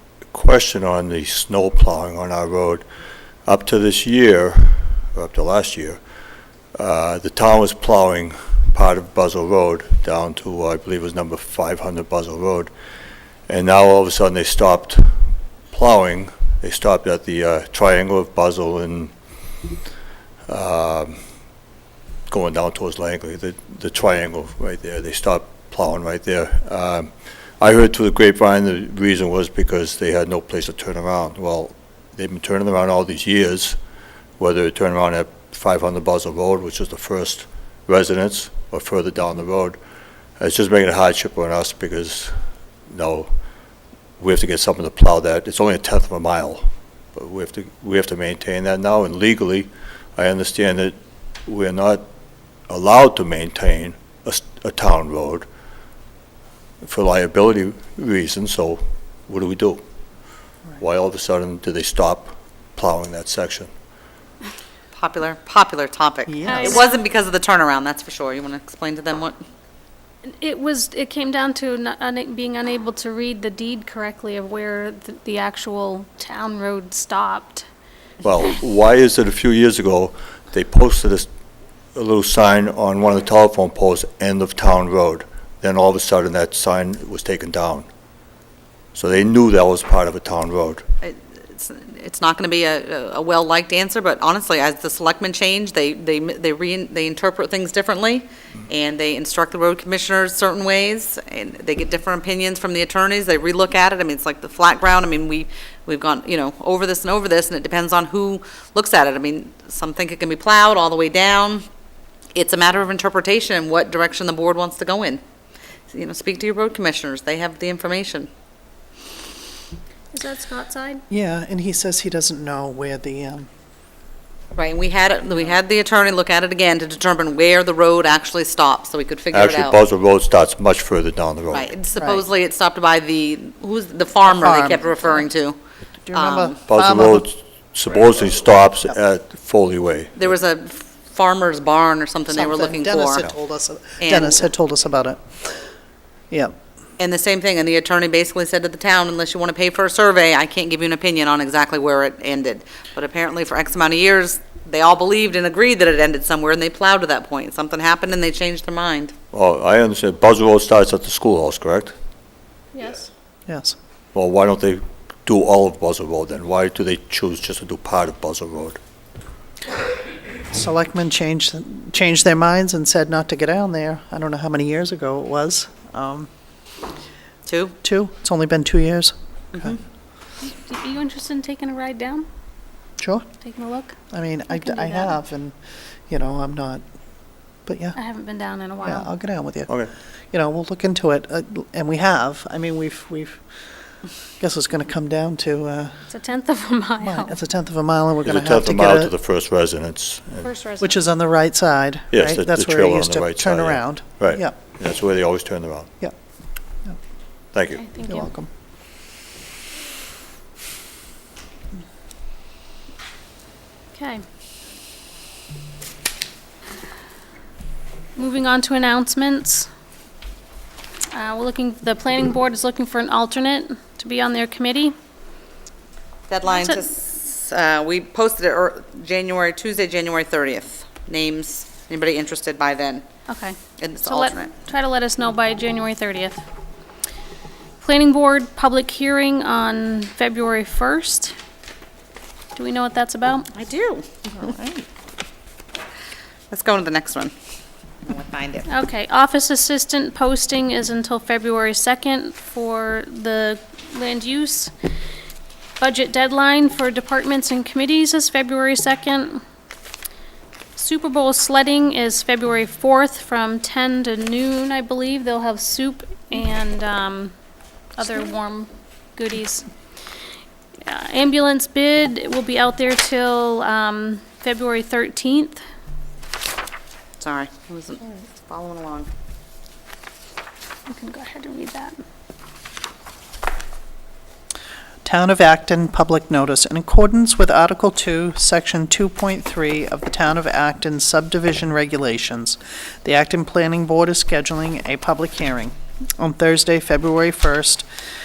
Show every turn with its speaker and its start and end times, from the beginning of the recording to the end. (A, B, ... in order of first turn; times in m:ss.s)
0:00.3-0:02.8 A
0:03.4-0:06.0 A
0:06.7-0:12.7 A
0:13.5-0:15.1 A
0:15.7-0:19.1 A
0:20.5-0:21.2 A
0:22.3-0:33.8 A
0:34.4-0:39.8 A
0:40.4-0:42.3 A
0:42.9-0:43.3 A
0:44.2-0:52.0 A
0:52.7-0:55.4 A
0:56.8-0:59.8 A
1:00.8-1:03.7 A
1:04.9-1:09.4 B
1:06.3-1:06.8 C
1:06.5-1:07.0 D
1:10.4-1:17.7 D
1:18.2-1:21.3 A
1:21.9-1:27.9 A
1:28.9-1:30.8 A
1:31.0-1:51.6 B
1:52.3-1:55.2 B
1:55.9-1:58.3 B
2:00.1-2:01.0 D
2:01.1-2:03.5 C
2:04.5-2:09.8 B
2:09.3-2:11.7 A
2:11.5-2:15.6 B
2:12.0-2:12.2 C
2:14.2-2:15.0 C
2:16.1-2:17.2 C
2:16.1-2:16.6 B
2:16.7-2:20.3 A
2:20.1-2:23.3 B
2:22.3-2:25.2 C
2:24.0-2:24.5 B
2:27.0-2:39.1 B
2:39.3-2:41.9 A
2:43.5-2:43.8 C
2:44.1-2:48.8 A
2:50.5-2:56.3 C
2:57.4-2:57.7 B
2:57.8-2:59.8 C
2:59.5-2:59.8 B
3:00.4-3:02.2 D
3:03.0-3:03.2 C
3:03.4-3:04.0 D
3:04.1-3:05.5 C
3:04.6-3:05.1 D
3:06.1-3:06.8 C
3:07.6-3:08.0 C
3:08.0-3:09.1 D
3:08.8-3:09.7 C
3:10.3-3:13.4 C
3:14.4-3:16.0 C
3:16.1-3:17.3 D
3:17.0-3:19.1 C
3:18.2-3:20.5 A
3:20.5-3:21.0 D
3:20.8-3:24.5 C
3:22.1-3:25.9 A
3:27.5-3:27.8 A
3:27.8-3:28.2 D
3:28.0-3:28.5 C
3:33.9-3:34.2 D
3:38.2-3:39.7 D
3:41.1-3:44.9 D
3:46.3-3:53.0 B
3:46.6-3:46.8 D
3:53.3-3:56.4 D
3:53.8-3:54.6 B
3:57.8-4:01.3 D
4:02.6-4:03.5 D
4:03.5-4:04.5 B
4:04.4-4:04.8 C
4:06.5-4:07.3 B
4:08.0-4:08.7 B
4:08.7-4:14.7 D
4:15.8-4:19.4 D
4:20.8-4:27.3 D
4:28.0-4:29.7 D
4:30.8-4:35.6 D
4:37.2-4:39.1 B
4:40.9-4:42.0 D
4:45.0-4:57.8 C